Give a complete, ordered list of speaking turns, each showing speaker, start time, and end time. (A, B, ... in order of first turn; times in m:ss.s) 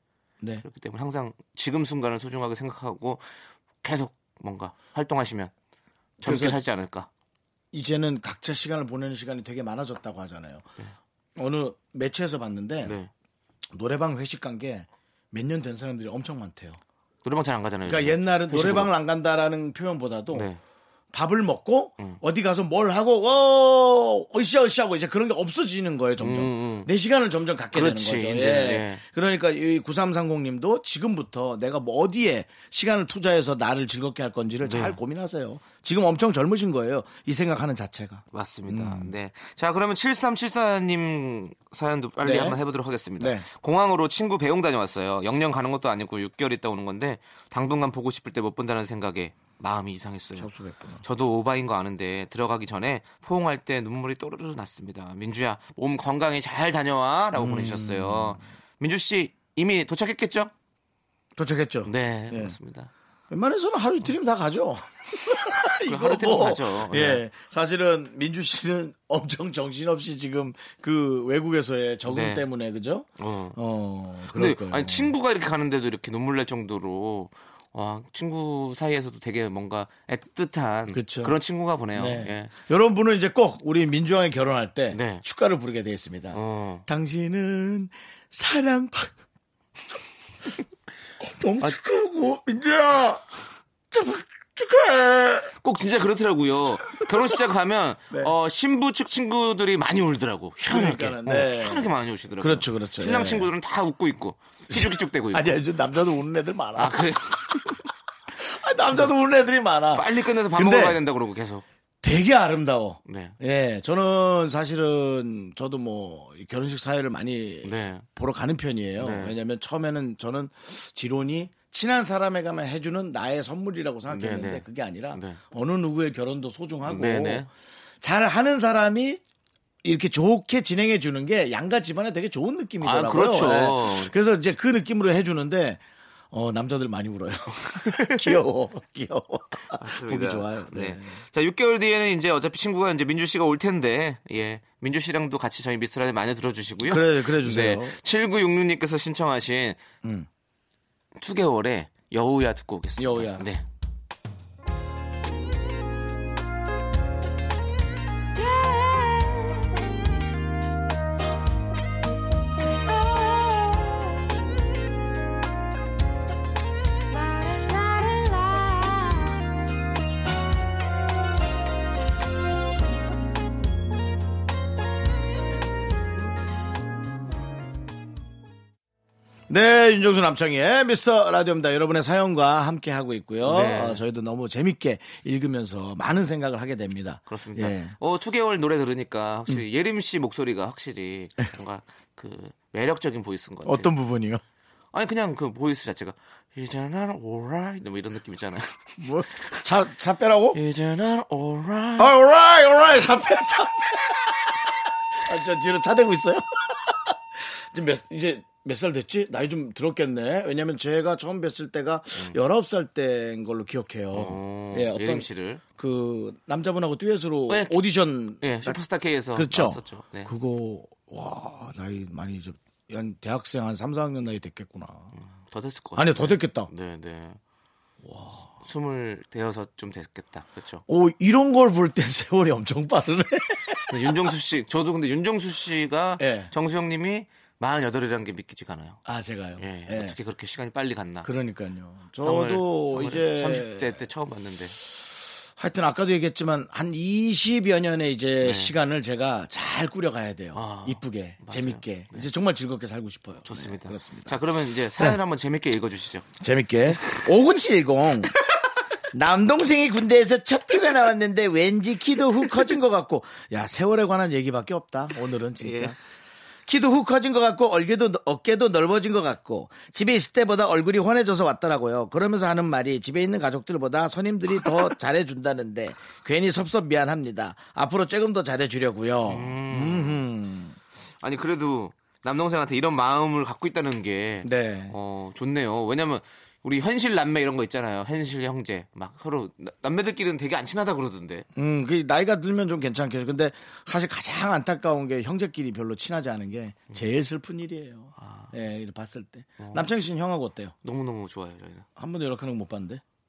0:00.6-0:03.2 A
0:03.8-0:05.5 A
0:06.2-0:07.1 A
0:06.2-0:06.6 B
0:07.7-0:10.7 B
0:11.4-0:13.0 B
0:12.8-0:13.1 A
0:13.7-0:16.8 B
0:17.2-0:18.9 A
0:17.8-0:20.5 B
0:20.3-0:20.6 A
0:21.1-0:39.1 B
0:26.2-0:26.9 A
0:27.7-0:29.0 A
0:34.6-0:35.0 A
0:38.3-0:50.5 A
0:42.2-0:42.6 B
0:43.2-0:43.5 B
0:50.4-0:51.0 B
0:51.0-1:00.5 A
0:57.4-0:58.4 B
1:01.4-1:02.6 B
1:01.8-1:02.9 A
1:03.3-1:15.2 B
1:05.8-1:07.2 A
1:12.1-1:12.4 A
1:13.2-1:13.6 A
1:14.3-1:22.5 A
1:20.9-1:21.4 B
1:21.9-1:29.1 B
1:24.9-1:25.2 A
1:26.3-1:26.8 A
1:31.2-1:33.2 B
1:33.9-1:35.5 B
1:35.6-1:45.5 A
1:36.9-1:37.2 B
1:40.7-1:43.5 B
1:44.7-1:47.7 B
1:46.8-1:47.8 A
1:48.4-1:51.0 B
1:49.9-1:51.6 A
1:52.0-2:07.5 B
1:53.1-1:53.4 A
1:57.6-1:58.0 A
1:59.0-1:59.4 A
2:04.1-2:05.4 A
2:06.9-2:07.5 A
2:08.0-2:09.2 B
2:09.8-2:21.2 B
2:12.8-2:14.1 A
2:17.8-2:18.3 A
2:19.7-2:29.8 A
2:26.8-2:28.0 B
2:31.2-2:33.6 A
2:33.0-2:33.5 B
2:59.5-3:08.0 B
3:03.4-3:04.0 A
3:07.3-3:13.9 A
3:13.6-3:14.4 B
3:14.9-3:18.8 A
3:19.0-3:20.6 B
3:20.5-3:22.1 A
3:22.0-3:38.8 B
3:34.1-3:35.6 A
3:37.5-3:37.8 A
3:38.4-3:40.3 A
3:39.3-3:45.1 B
3:45.1-3:47.4 A
3:46.0-3:46.7 B
3:48.0-3:48.5 B
3:48.6-3:50.8 A
3:50.9-3:54.2 B
3:53.9-3:59.0 A
3:56.2-3:56.5 B
3:59.0-4:00.2 B
3:59.6-4:01.3 A
4:01.2-4:04.0 B
4:02.2-4:04.8 A
4:05.6-4:14.4 B
4:08.4-4:08.7 A
4:10.5-4:12.3 A
4:13.4-4:16.3 A
4:16.4-4:18.4 B
4:16.9-4:17.2 A
4:19.1-4:26.0 B
4:25.6-4:25.9 A
4:26.7-4:40.8 B
4:39.3-4:40.2 A
4:41.2-4:51.5 A
4:44.4-4:44.9 B
4:51.6-5:00.7 B
4:58.2-4:58.5 A
4:59.6-4:59.9 A
5:00.8-5:01.9 A
5:02.0-5:03.0 B